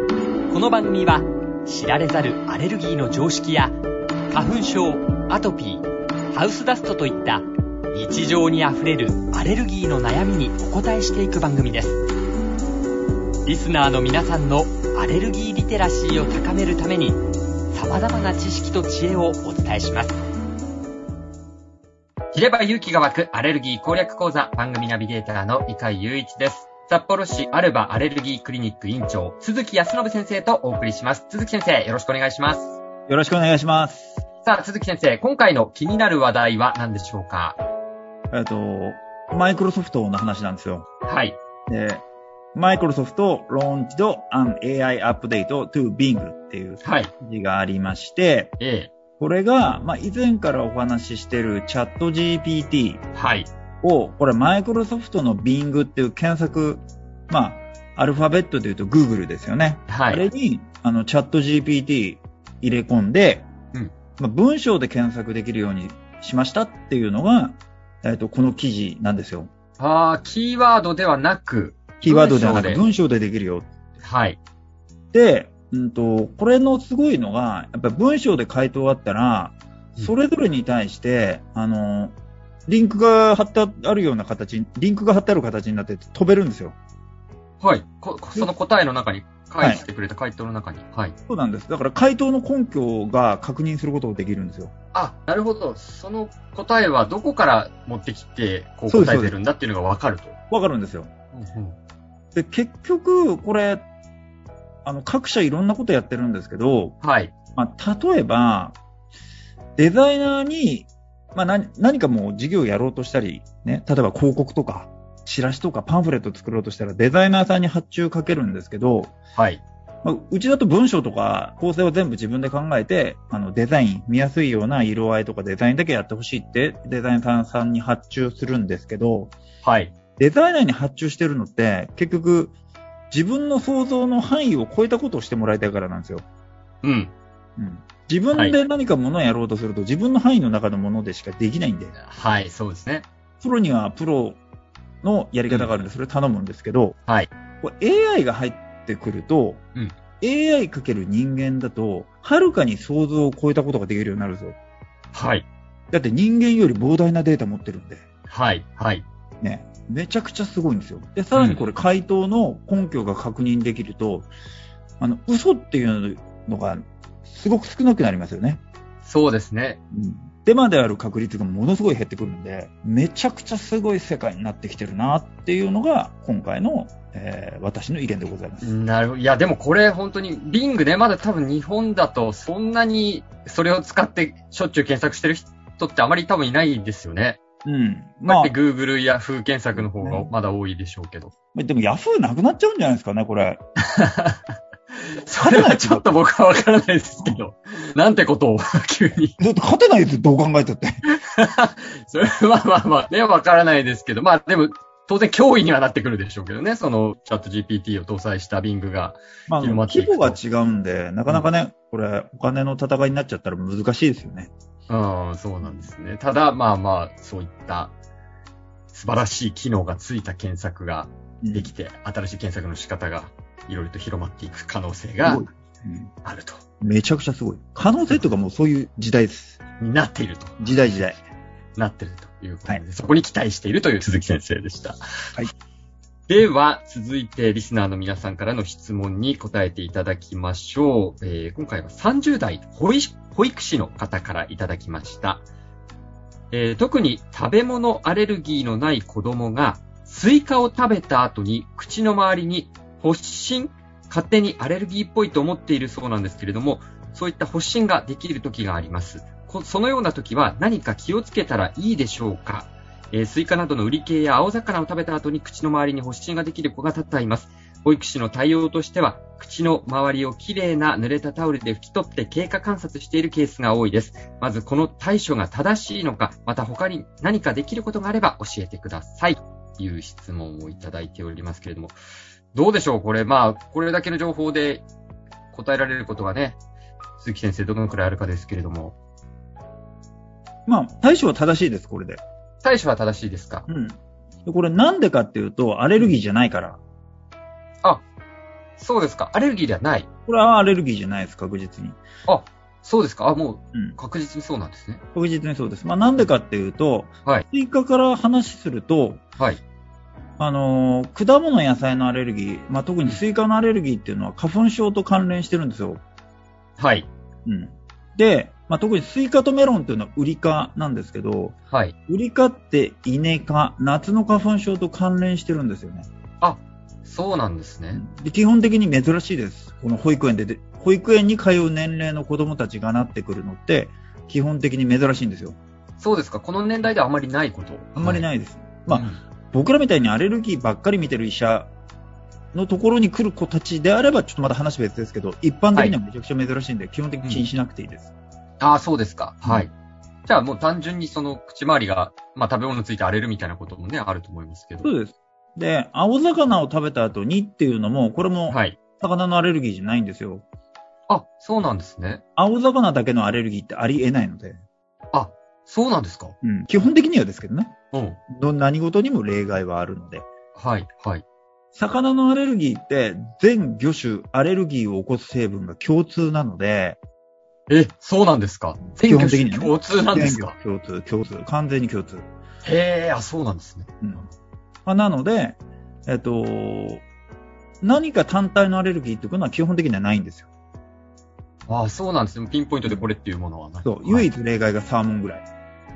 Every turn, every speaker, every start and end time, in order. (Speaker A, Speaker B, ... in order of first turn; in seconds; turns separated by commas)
Speaker A: 0.5-3.8, Speaker A: 4.3-12.0, Speaker A: 13.5-17.2, Speaker A: 17.7-20.2, Speaker A: 22.3-32.8, Speaker B: 33.1-34.1, Speaker A: 34.4-37.6, Speaker B: 38.3-40.9, Speaker A: 41.0-41.4, Speaker B: 41.7-42.0, Speaker B: 42.5-48.5, Speaker A: 46.8-47.1, Speaker A: 48.6-48.9, Speaker B: 49.2-53.0, Speaker A: 53.1-53.5, Speaker B: 53.8-63.5, Speaker A: 59.9-60.3, Speaker B: 64.2-69.5, Speaker A: 69.8-72.9, Speaker B: 72.0-73.7, Speaker A: 74.0-74.4, Speaker B: 75.1-82.2, Speaker B: 82.7-86.8, Speaker A: 87.6-91.2, Speaker B: 91.3-94.7, Speaker A: 94.9-100.4, Speaker B: 98.9-99.4, Speaker B: 100.5-101.1, Speaker A: 101.3-101.8, Speaker B: 102.3-103.8, Speaker B: 104.8-106.9, Speaker A: 107.0-107.3, Speaker B: 107.6-108.8, Speaker B: 109.8-119.1, Speaker A: 119.3-119.6, Speaker B: 120.0-129.3, Speaker A: 129.6-129.9, Speaker B: 130.2-132.6, Speaker B: 133.1-136.2, Speaker A: 136.8-137.1, Speaker B: 137.6-141.9, Speaker A: 142.0-143.1, Speaker B: 143.4-144.4, Speaker B: 145.0-147.0, Speaker B: 147.6-149.6, Speaker B: 150.2-154.6, Speaker A: 155.1-155.5, Speaker B: 155.9-158.0, Speaker A: 158.3-159.1, Speaker B: 159.4-164.3, Speaker A: 161.3-161.7, Speaker B: 165.0-168.6, Speaker A: 169.0-169.8, Speaker B: 169.9-178.7, Speaker A: 178.6-187.4, Speaker B: 187.7-188.5, Speaker A: 188.3-191.3, Speaker B: 189.8-190.3, Speaker B: 191.6-193.6, Speaker A: 193.8-199.4, Speaker B: 195.3-196.1, Speaker B: 199.4-201.0, Speaker A: 201.2-210.4, Speaker B: 209.5-214.5, Speaker A: 214.9-217.9, Speaker B: 215.6-215.9, Speaker A: 218.9-225.4, Speaker B: 221.4-221.7, Speaker B: 225.2-226.1, Speaker A: 226.2-226.6, Speaker B: 226.8-229.6, Speaker A: 229.8-230.7, Speaker B: 230.6-231.2, Speaker A: 231.8-235.0, Speaker A: 236.3-245.4, Speaker A: 246.5-282.0, Speaker A: 282.5-284.9, Speaker A: 285.5-286.6, Speaker A: 287.2-289.0, Speaker B: 290.7-292.2, Speaker A: 292.6-293.7, Speaker B: 293.7-296.8, Speaker A: 298.8-300.1, Speaker B: 300.3-302.0, Speaker A: 302.3-305.0, Speaker B: 305.1-309.2, Speaker B: 310.4-316.0, Speaker A: 316.8-317.1, Speaker B: 317.5-321.6, Speaker A: 321.7-322.0, Speaker B: 322.1-326.1, Speaker A: 326.4-328.0, Speaker B: 327.9-335.6, Speaker A: 336.0-338.3, Speaker B: 338.0-341.7, Speaker A: 338.9-339.2, Speaker B: 342.5-348.1, Speaker A: 348.6-349.7, Speaker A: 350.3-354.9, Speaker B: 354.8-360.4, Speaker A: 358.5-358.8, Speaker A: 361.1-362.2, Speaker B: 362.4-364.6, Speaker A: 365.1-366.4, Speaker B: 366.4-367.8, Speaker A: 367.9-368.2, Speaker B: 368.3-370.3, Speaker A: 370.6-371.2, Speaker B: 371.8-377.0, Speaker A: 377.7-380.6, Speaker B: 379.0-382.3, Speaker A: 382.6-383.9, Speaker B: 384.0-384.3, Speaker B: 384.9-387.0, Speaker B: 387.8-390.5, Speaker A: 391.7-394.3, Speaker B: 393.9-395.4